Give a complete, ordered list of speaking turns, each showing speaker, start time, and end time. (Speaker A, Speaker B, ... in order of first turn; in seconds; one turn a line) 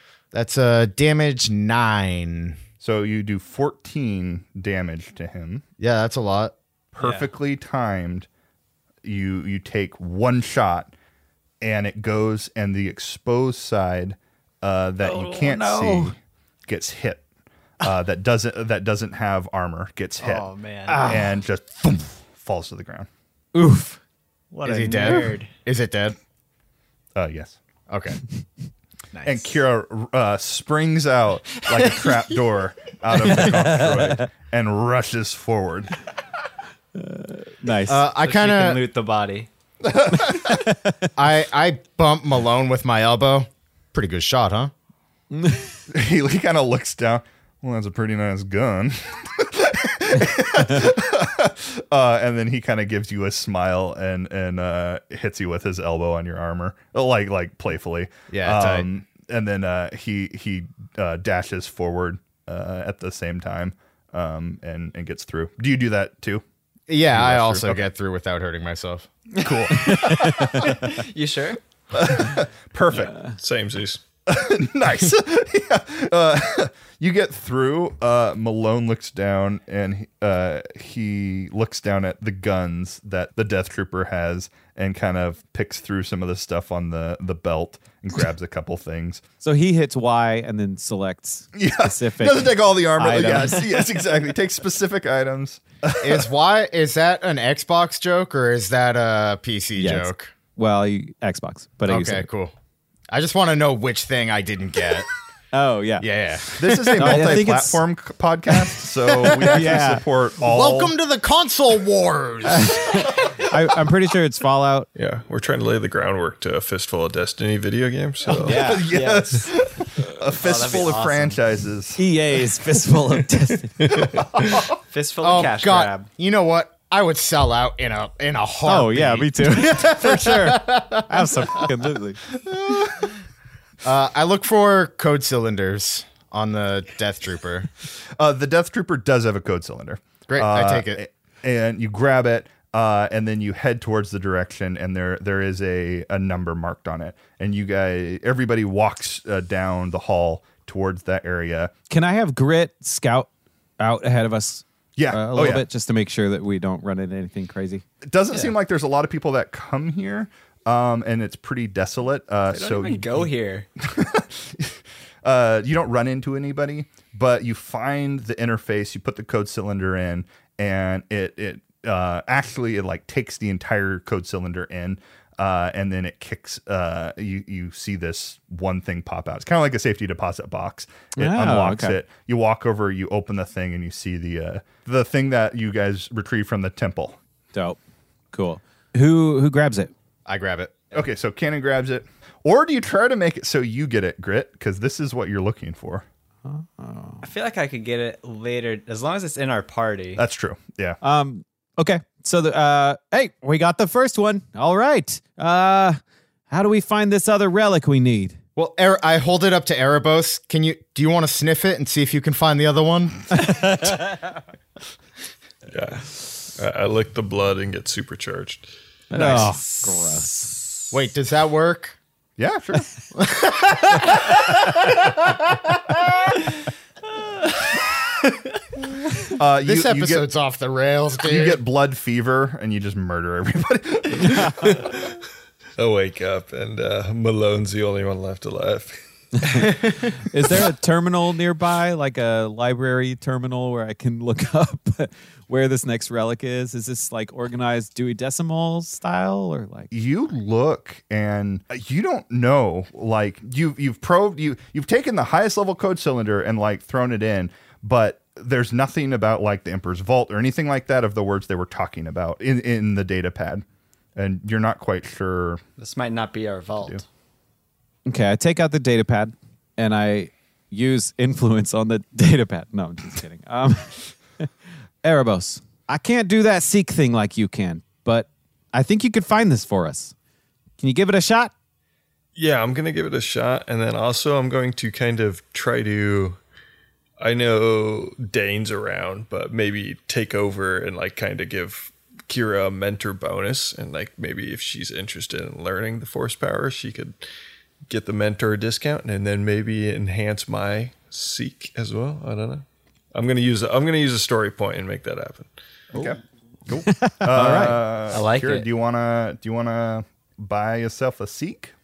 Speaker A: 0.3-2.6
Speaker B: 2.8-5.6
Speaker A: 5.8-6.5
Speaker B: 6.9-8.3
Speaker B: 9.0-10.9
Speaker B: 11.6-17.2
Speaker C: 15.0-16.1
Speaker B: 17.8-20.5
Speaker D: 20.2-21.1
Speaker C: 20.9-21.4
Speaker B: 21.0-23.1
Speaker C: 23.6-24.0
Speaker D: 24.5-25.5
Speaker A: 24.6-26.2
Speaker B: 27.2-27.6
Speaker A: 27.9-28.2
Speaker D: 29.1-29.5
Speaker B: 29.2-35.9
Speaker D: 31.7-32.0
Speaker C: 33.5-34.2
Speaker C: 37.0-38.0
Speaker A: 37.9-38.8
Speaker D: 38.1-39.5
Speaker B: 39.8-40.5
Speaker C: 40.3-41.0
Speaker A: 41.2-44.7
Speaker C: 45.3-45.7
Speaker B: 45.9-66.4
Speaker A: 58.3-58.9
Speaker A: 66.9-69.1
Speaker B: 67.1-67.9
Speaker D: 69.3-71.6
Speaker B: 69.4-70.7
Speaker C: 69.7-70.7
Speaker B: 71.9-73.2
Speaker E: 73.2-74.0
Speaker B: 74.3-89.2
Speaker C: 89.4-93.8
Speaker B: 91.5-96.3
Speaker A: 96.0-100.3
Speaker C: 99.8-102.3
Speaker A: 101.9-102.5
Speaker A: 103.1-105.1
Speaker C: 105.5-106.1
Speaker A: 106.0-107.3
Speaker B: 106.6-111.0
Speaker C: 106.9-107.8
Speaker A: 109.2-109.6
Speaker C: 109.3-110.0
Speaker A: 110.4-113.1
Speaker C: 112.5-114.9
Speaker E: 115.0-118.7
Speaker C: 118.3-118.9
Speaker B: 118.5-122.0
Speaker D: 118.9-119.5
Speaker D: 120.4-121.4
Speaker C: 122.0-124.0
Speaker E: 123.8-124.6
Speaker B: 124.0-124.7
Speaker D: 124.9-126.1
Speaker A: 125.2-131.7
Speaker C: 128.7-132.2
Speaker B: 132.5-133.1
Speaker A: 133.8-137.7
Speaker B: 138.2-151.7
Speaker A: 140.3-141.0
Speaker C: 151.9-153.3
Speaker C: 153.8-157.8
Speaker B: 155.0-155.7
Speaker B: 158.0-187.2
Speaker D: 162.5-163.7
Speaker C: 181.2-182.0
Speaker C: 188.3-189.9
Speaker A: 190.3-190.8
Speaker B: 190.9-196.1
Speaker C: 196.4-197.2
Speaker D: 197.2-200.2
Speaker B: 200.2-201.0
Speaker C: 201.0-208.4
Speaker A: 208.6-213.7
Speaker C: 213.3-214.0
Speaker E: 215.7-218.7
Speaker C: 219.1-220.6
Speaker B: 219.2-219.5
Speaker A: 220.9-222.0
Speaker B: 222.4-222.9
Speaker A: 223.2-225.4
Speaker B: 229.3-230.3
Speaker A: 229.6-231.6
Speaker B: 231.2-234.5
Speaker C: 234.2-234.7
Speaker E: 234.4-235.2
Speaker E: 235.8-239.0
Speaker C: 239.4-249.9
Speaker B: 249.9-263.6
Speaker B: 264.2-265.6
Speaker D: 265.8-267.0
Speaker C: 268.1-274.5
Speaker C: 275.0-280.1
Speaker C: 280.8-281.5
Speaker E: 282.4-286.4
Speaker E: 287.2-297.2
Speaker E: 297.9-305.5
Speaker B: 305.9-311.7
Speaker C: 306.8-307.8
Speaker D: 308.1-308.7